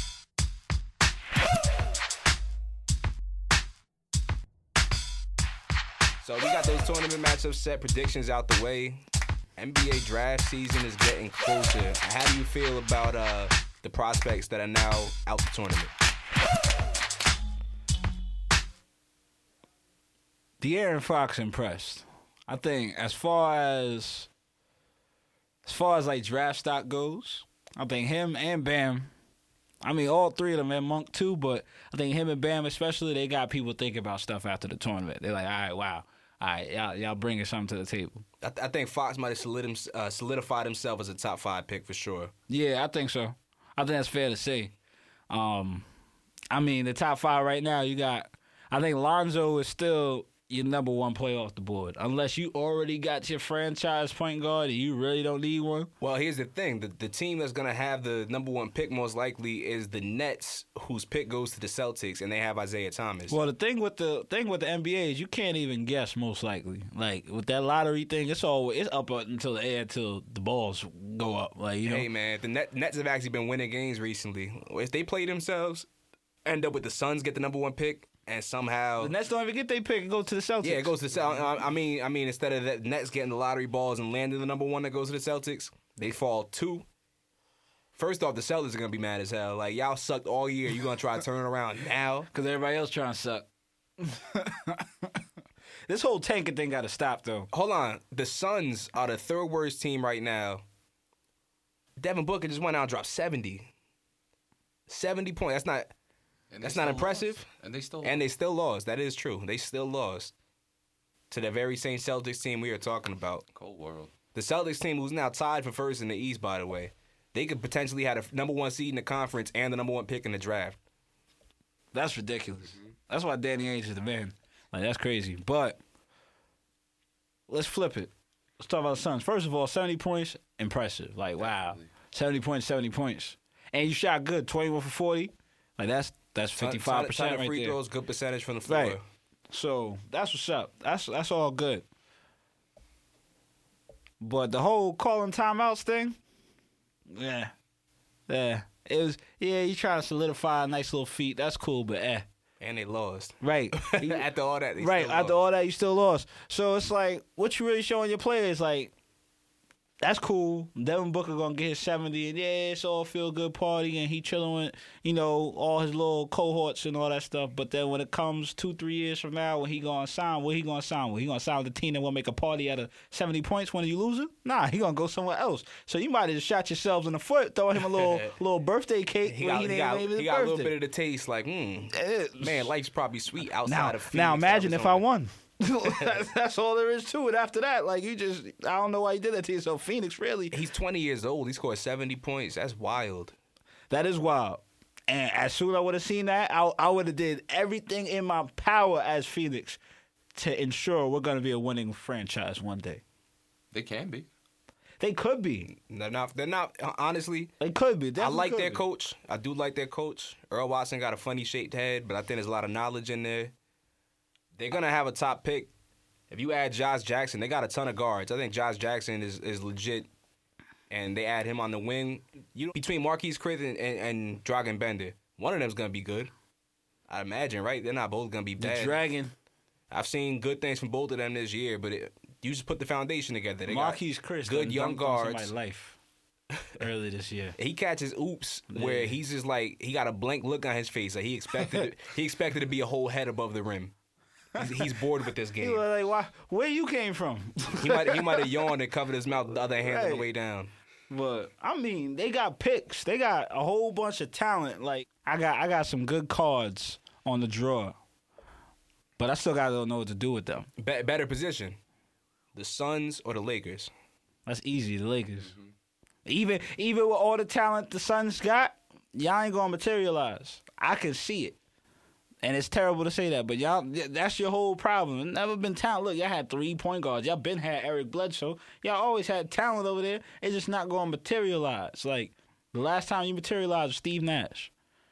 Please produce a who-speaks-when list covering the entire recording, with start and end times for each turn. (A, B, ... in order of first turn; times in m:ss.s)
0:06.2-0:09.0 A
0:09.6-0:15.9 A
0:20.6-0:24.3 B
0:25.6-0:29.1 B
0:29.8-0:38.2 B
0:38.4-0:42.3 A
0:42.5-0:44.7 B
0:45.3-0:45.8 B
0:46.5-0:55.9 B
0:56.0-1:03.4 A
1:03.3-1:12.1 B
1:11.8-1:15.9 A
1:16.4-1:19.1 A
1:19.0-1:21.0 B
1:20.6-1:26.8 A
1:28.0-1:32.3 A
1:32.3-1:33.5 B
1:34.0-1:35.2 B
1:35.9-1:37.5 B
1:37.5-1:40.6 A
1:42.0-1:43.7 A
1:44.9-1:45.9 A
1:46.5-1:48.2 C
1:46.6-1:47.5 A
1:48.0-1:50.3 A
1:51.3-1:53.4 A
1:53.6-1:54.1 C
1:54.3-2:00.8 A
2:01.9-2:05.8 B
2:07.5-2:17.8 B
2:11.4-2:11.9 C
2:16.6-2:19.0 A
2:18.7-2:19.0 B
2:19.5-2:21.8 B
2:24.2-2:26.2 B
2:27.1-2:27.5 B
2:28.3-2:32.3 B
2:32.6-2:35.4 A
2:33.4-2:34.3 B
2:34.8-2:38.9 B
2:40.0-3:00.7 B
2:57.8-2:58.4 A
2:59.2-3:05.0 A
3:01.9-3:02.7 B
3:03.6-3:10.6 B
3:10.5-3:13.4 A
3:13.9-3:19.8 B
3:20.4-3:23.0 B
3:23.7-3:24.3 C
3:25.0-3:25.7 B
3:25.7-3:27.5 A
3:27.6-3:28.8 B
3:28.2-3:33.5 A
3:34.6-3:35.7 A
3:36.3-3:40.1 A
3:40.9-3:46.3 A
3:47.1-3:49.0 A
3:48.6-3:49.3 B
3:49.9-3:55.5 A
3:53.7-3:56.0 B
3:56.8-3:57.6 B
3:57.6-4:03.9 A
3:58.7-3:59.2 B
4:04.6-4:05.8 A
4:04.6-4:04.9 B
4:05.6-4:08.6 B
4:07.7-4:10.7 A
4:09.8-4:10.3 B
4:11.1-4:18.0 B
4:19.2-4:20.7 B
4:20.8-4:21.8 A
4:22.6-4:23.9 A
4:24.5-4:25.5 B
4:25.4-4:25.7 C
4:26.3-4:31.6 B
4:32.4-4:44.7 B